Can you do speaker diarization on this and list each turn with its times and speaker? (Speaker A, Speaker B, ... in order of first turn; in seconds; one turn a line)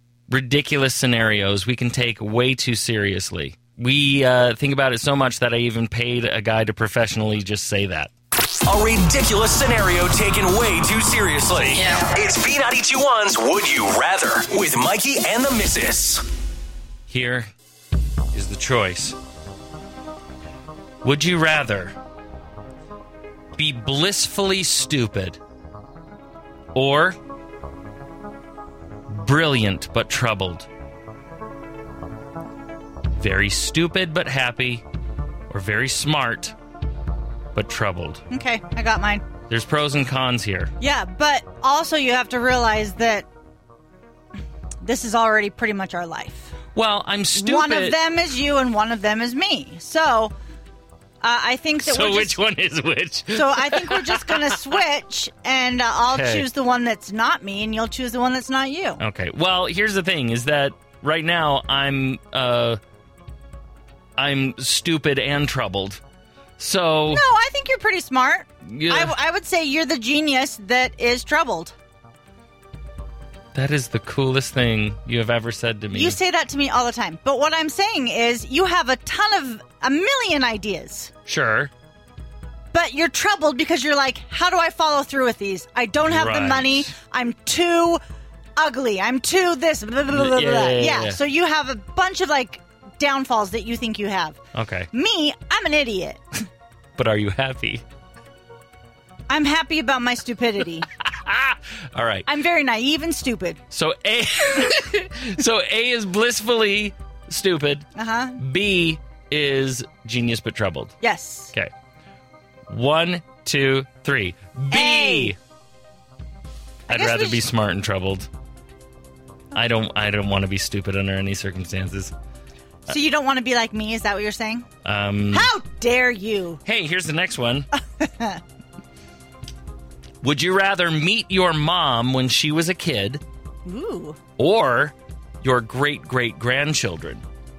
Speaker A: 0.3-8.1
Speaker B: 8.6-16.2
Speaker A: 17.1-17.5
Speaker A: 18.3-19.2
Speaker A: 21.0-22.0
Speaker A: 23.6-25.4
Speaker A: 26.7-27.2
Speaker A: 29.1-30.7
Speaker A: 33.1-34.8
Speaker A: 35.5-36.6
Speaker A: 37.5-38.2
Speaker C: 38.3-39.2
Speaker A: 39.5-40.7
Speaker C: 40.8-43.3
Speaker C: 44.8-46.5
Speaker A: 46.7-48.0
Speaker C: 47.3-50.3
Speaker C: 51.2-52.4
Speaker A: 51.8-54.7
Speaker C: 53.3-59.0
Speaker A: 56.1-56.5
Speaker A: 59.0-62.8
Speaker A: 64.2-66.0
Speaker A: 66.6-67.2
Speaker C: 67.1-71.7
Speaker A: 68.7-69.2
Speaker A: 73.5-76.2
Speaker C: 75.9-81.1
Speaker A: 81.3-81.7
Speaker C: 82.7-88.0
Speaker A: 86.1-86.9
Speaker C: 88.6-94.4
Speaker A: 90.1-91.2
Speaker A: 94.5-94.9
Speaker C: 94.9-96.2
Speaker A: 97.0-97.8
Speaker C: 99.3-100.9
Speaker A: 101.0-102.3
Speaker C: 102.3-103.6
Speaker A: 103.7-107.9
Speaker C: 108.0-108.4
Speaker A: 108.4-111.0
Speaker C: 111.0-111.5
Speaker A: 112.7-115.4
Speaker C: 114.7-115.3
Speaker A: 116.9-118.3
Speaker C: 116.9-117.4
Speaker A: 119.5-122.1
Speaker C: 122.9-124.7
Speaker A: 124.8-125.5
Speaker C: 125.3-126.6
Speaker A: 126.7-127.7
Speaker C: 128.0-128.4
Speaker A: 130.2-133.2
Speaker C: 133.7-134.2
Speaker A: 134.4-137.2